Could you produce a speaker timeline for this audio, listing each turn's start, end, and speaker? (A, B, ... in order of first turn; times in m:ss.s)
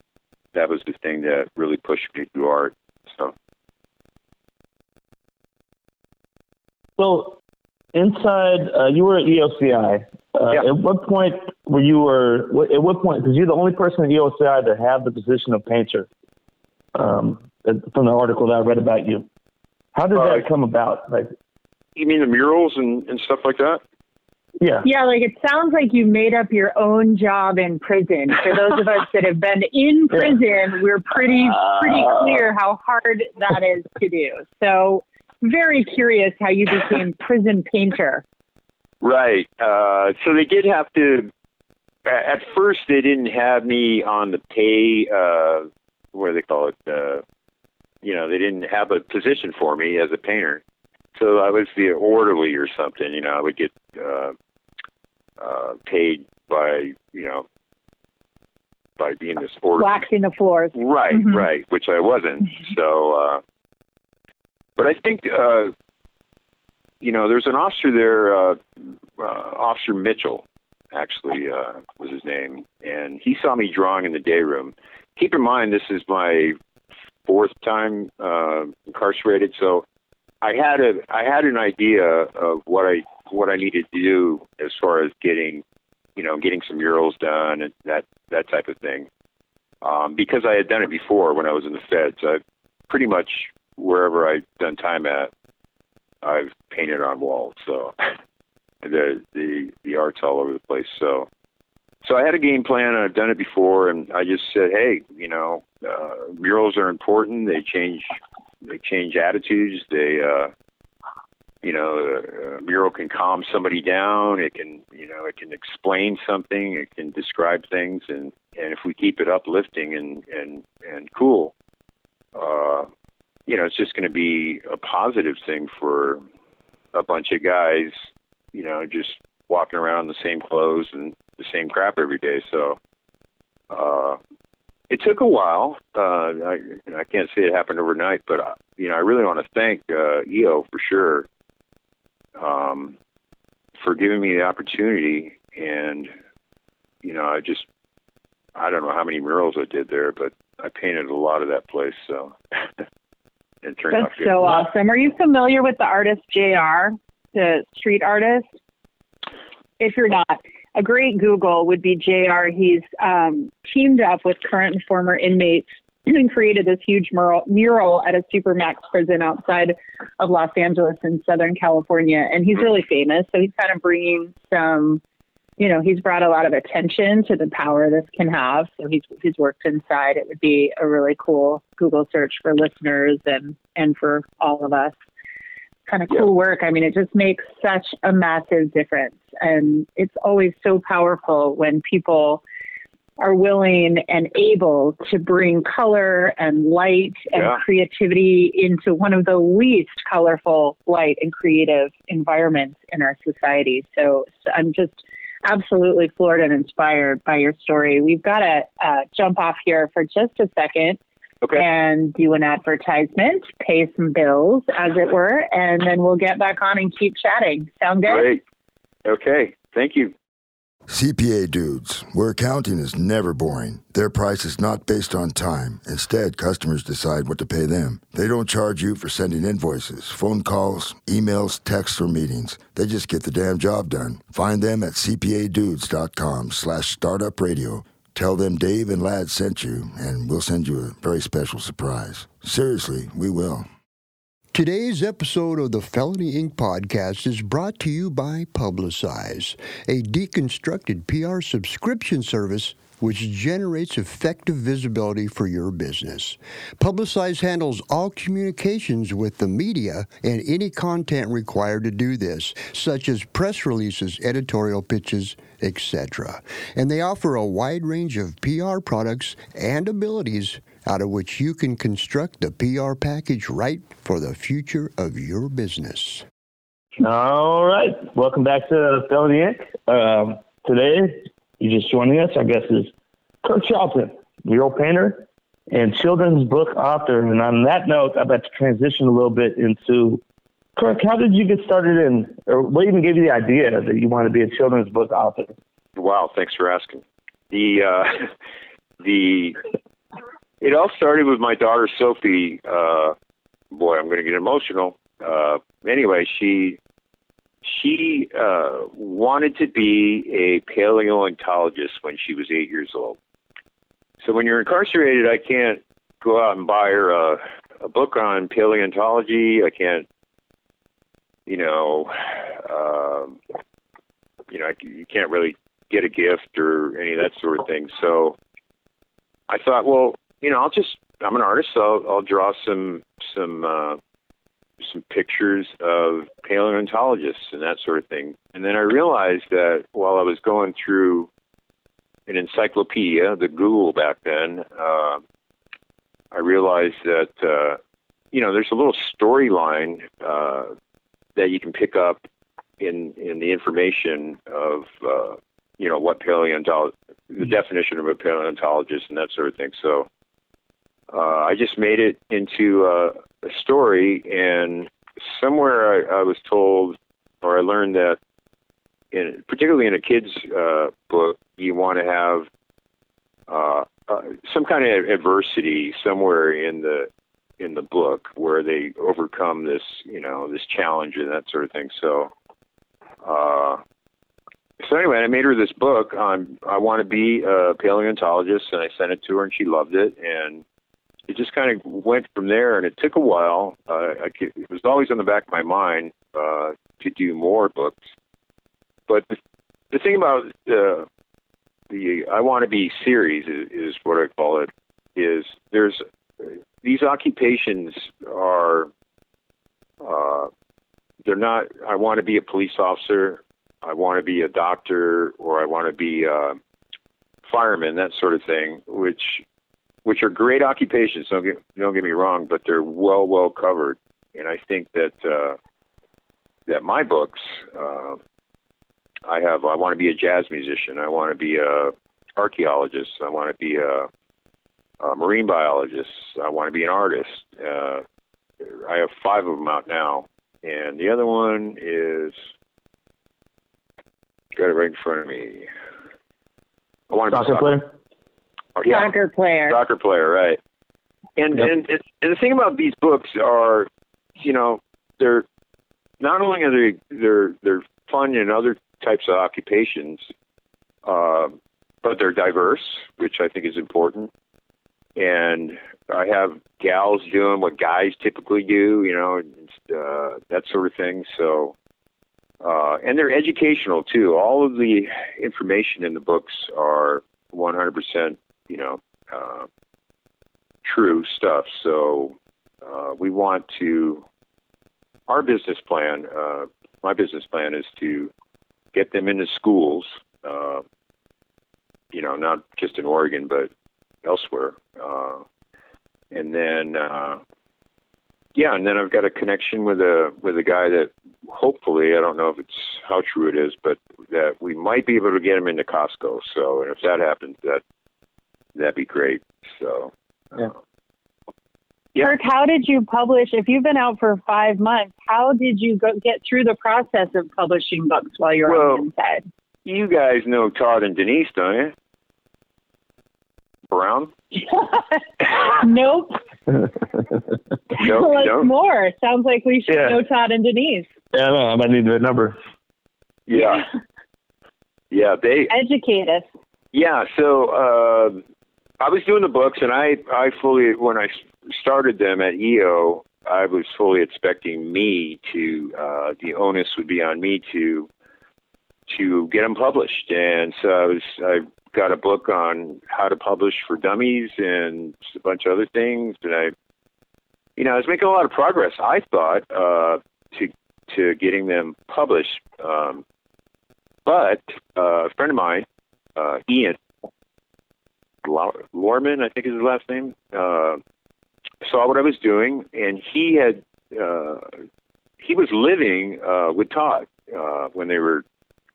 0:00.5-0:03.3 A
0:07.0-0:07.4 B
0:07.9-0:16.1 B
0:16.9-0:19.2 B
0:19.9-0:21.3 B
0:20.1-0:20.4 A
0:22.0-0:23.8 A
0:24.6-0:24.8 B
0:24.8-0:38.2 C
0:39.0-0:41.3 A
0:42.0-0:47.2 A
0:48.0-0:50.6 A
0:51.1-0:54.3 A
0:55.4-0:57.4 A
0:59.0-1:00.0 A
0:59.8-1:01.4 C
1:00.7-1:03.4 A
1:04.8-1:05.7 A
1:07.0-1:08.6 A
1:09.2-1:16.6 A
1:17.2-1:19.8 A
1:20.4-1:25.6 A
1:26.2-1:29.1 A
1:29.8-1:35.3 A
1:36.2-1:37.9 A
1:38.8-1:41.3 A
1:42.0-1:50.5 A
1:51.6-2:01.5 A
2:02.3-2:02.9 A
2:03.5-2:06.2 A
2:06.9-2:07.9 A
2:08.5-2:12.8 A
2:13.7-2:14.2 A
2:14.9-2:21.3 A
2:22.4-2:23.0 A
2:23.8-2:26.1 A
2:27.0-2:27.6 A
2:28.5-2:32.4 A
2:33.6-2:34.6 A
2:33.9-2:38.4 C
2:39.8-2:55.0 C
2:55.6-3:04.9 C
3:05.9-3:12.4 C
3:13.2-3:31.0 C
3:17.3-3:17.6 A
3:31.5-3:38.3 C
3:38.1-3:38.4 A
3:39.0-3:40.1 A
3:40.9-4:03.7 D
4:04.5-4:36.2 E
4:37.0-4:42.9 B
4:43.4-4:50.2 B
4:50.8-4:55.5 B
4:56.0-4:58.3 A
4:59.0-4:59.6 A
5:00.6-5:03.1 A
5:03.7-5:06.8 A
5:07.6-5:13.2 A
5:14.2-5:20.0 A
5:21.4-5:23.4 A
5:24.5-5:28.4 A
5:29.5-5:34.0 A
5:34.8-5:41.3 A
5:42.3-5:45.2 A
5:46.3-5:47.8 A
5:48.3-5:50.7 A
5:51.4-5:52.2 A
5:52.8-6:00.1 A
6:01.1-6:08.2 A
6:09.1-6:12.5 A
6:13.5-6:17.1 A
6:17.6-6:22.3 A
6:23.2-6:23.8 A
6:24.8-6:30.6 A
6:31.3-6:38.0 A
6:39.1-6:39.3 A
6:39.9-6:41.0 A
6:41.9-6:48.9 A
6:50.0-6:50.5 A
6:51.2-6:56.6 A
6:57.4-6:59.4 A
7:00.0-7:05.6 A
7:06.7-7:08.2 A
7:09.2-7:14.1 A
7:15.0-7:18.0 A
7:18.6-7:22.3 A
7:24.6-7:25.7 A
7:27.1-7:27.8 A
7:27.3-7:27.9 B
7:28.8-7:29.1 A
7:28.8-7:29.8 C
7:29.7-7:30.6 A
7:31.4-7:33.9 A
7:34.4-7:35.4 A
7:36.2-7:40.2 A
7:41.0-7:44.3 A
7:45.2-7:51.7 A
7:52.6-7:59.7 A
8:00.8-8:04.2 A
8:05.3-8:08.3 A
8:08.9-8:10.8 A
8:12.1-8:13.7 A
8:14.2-8:15.4 A
8:16.3-8:17.4 A
8:18.6-8:27.8 A
8:28.7-8:30.7 A
8:32.2-8:39.4 C
8:38.7-8:39.0 A
8:39.8-8:41.9 A
8:43.9-8:44.3 A
8:44.6-8:46.4 C
8:47.2-8:47.4 B
8:47.9-8:51.0 C
8:48.0-8:48.7 A
8:49.9-8:50.2 B
8:51.3-8:52.6 B
8:53.5-8:53.8 A
8:55.1-8:55.7 A
8:55.7-8:56.4 C
8:56.9-8:58.4 A
8:59.0-9:08.1 A
9:09.1-9:16.7 A
9:17.8-9:23.2 A
9:24.2-9:27.0 A
9:28.4-9:31.0 A
9:31.8-9:34.7 A
9:35.4-9:38.4 A